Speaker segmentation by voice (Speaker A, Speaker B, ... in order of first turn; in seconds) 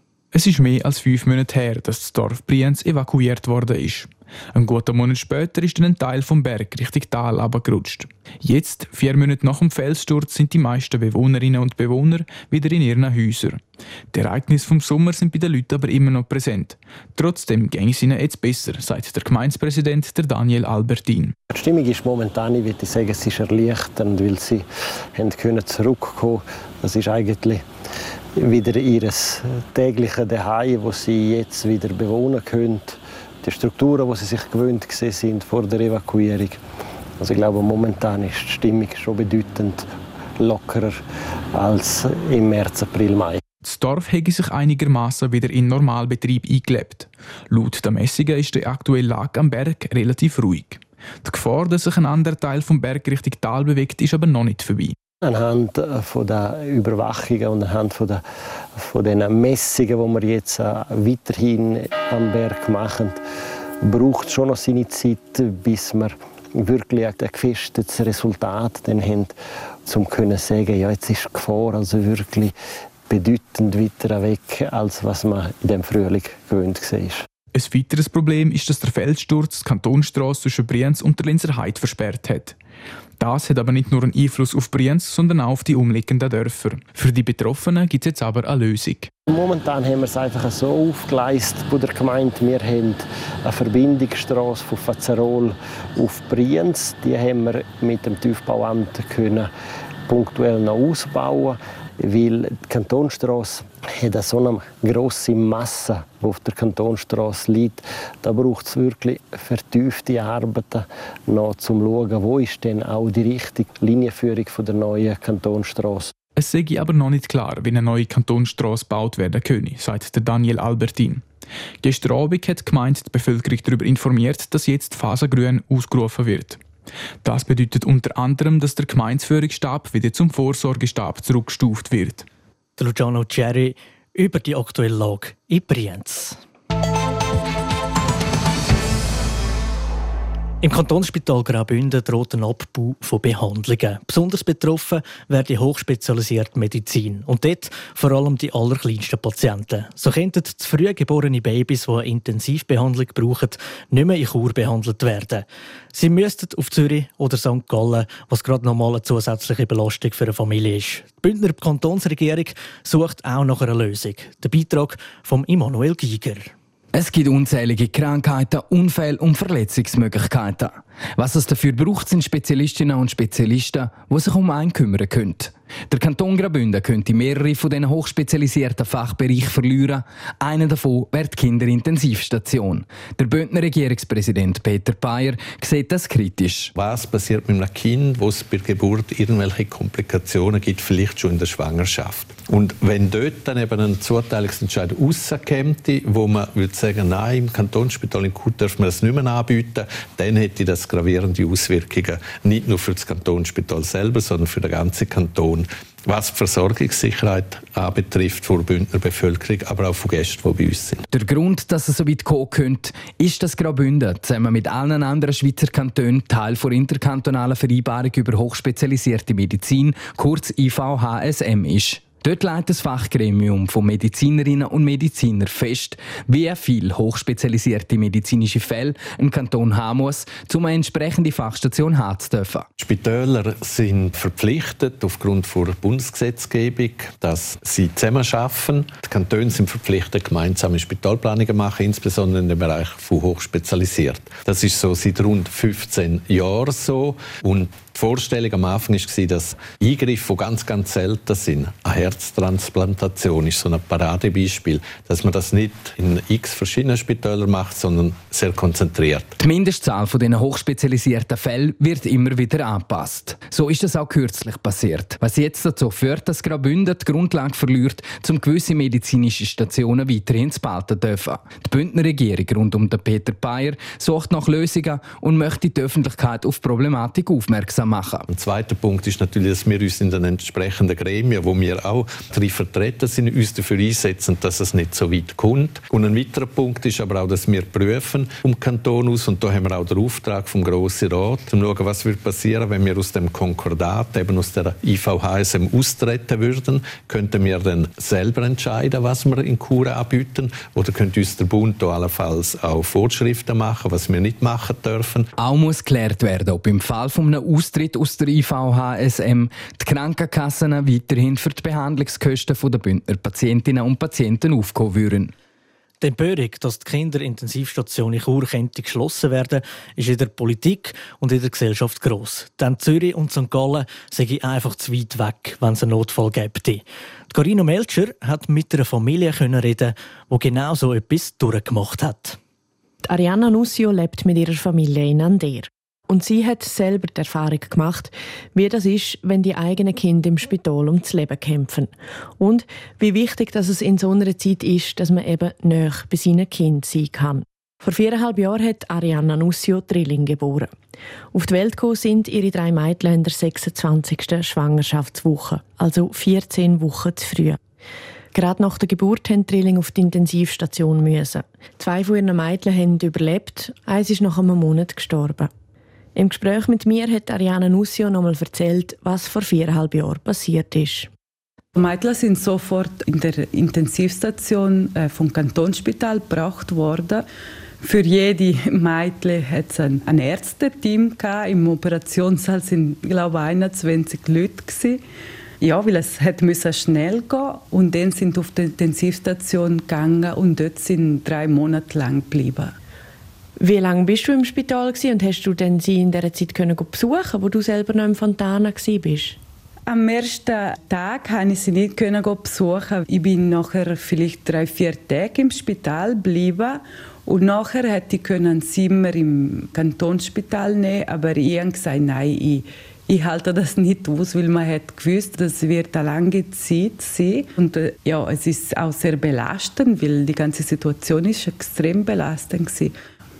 Speaker A: 0.3-21.4, 43.6-55.0, 77.5-82.6, 83.2-89.1, 116.3-121.2, 121.8-126.6, 127.2-132.3
Speaker B: 21.5-27.6, 28.4-36.6, 37.2-39.9, 40.4-41.0, 41.5-43.4, 55.2-58.2, 58.8-63.2, 63.8-69.3, 69.9-72.5, 73.1-77.2, 89.3-99.5, 100.1-116.1
Speaker C: 132.8-136.4, 140.6-166.5, 316.0-332.4
Speaker D: 166.9-186.7, 211.1-232.7, 259.4-278.3, 305.4-315.3
Speaker E: 186.8-211.1, 232.8-259.4, 278.3-305.3
Speaker F: 333.0-350.7, 351.3-357.6, 358.3-365.5, 366.1-371.1, 393.6-399.4
Speaker G: 371.8-377.2, 377.8-385.0, 385.6-392.7, 399.9-422.9